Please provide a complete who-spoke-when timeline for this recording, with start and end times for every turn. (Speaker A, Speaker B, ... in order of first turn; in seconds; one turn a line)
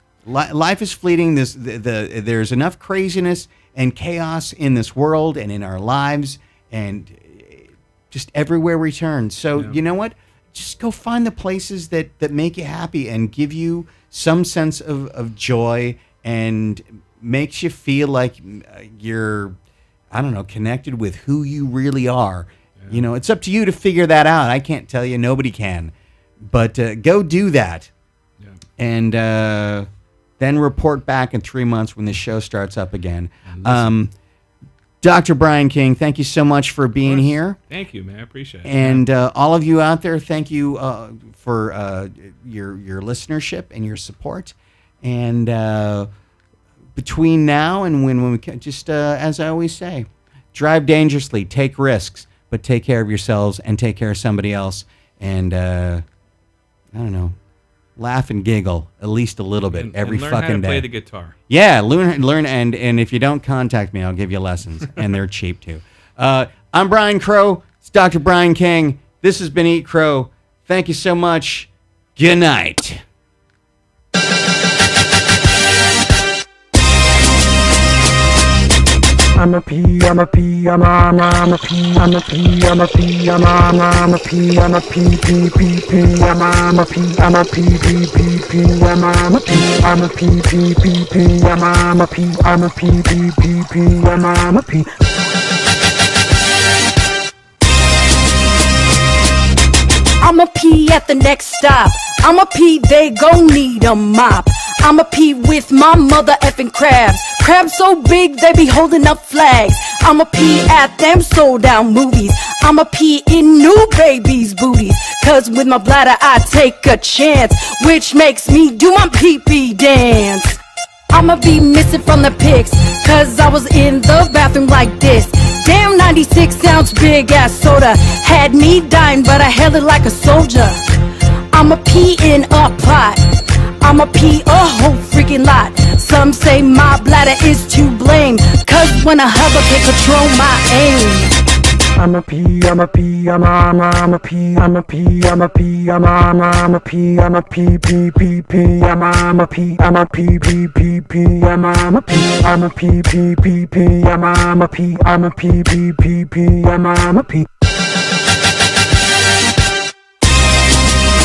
Speaker A: 0.2-19.6
Speaker A: 20.1-27.9
Speaker B: 22.8-23.0
Speaker A: 28.8-29.9
Speaker A: 30.4-34.1
Speaker B: 33.5-33.9
Speaker A: 35.0-37.6
Speaker B: 37.0-39.0
Speaker A: 38.6-46.1
Speaker A: 47.0-56.0
Speaker A: 56.9-57.4
Speaker A: 58.0-60.9
Speaker B: 59.7-61.3
Speaker A: 61.5-73.0
Speaker C: 79.4-94.9
Speaker D: 100.2-120.6
Speaker D: 121.1-130.8
Speaker D: 131.5-141.3
Speaker C: 142.0-157.5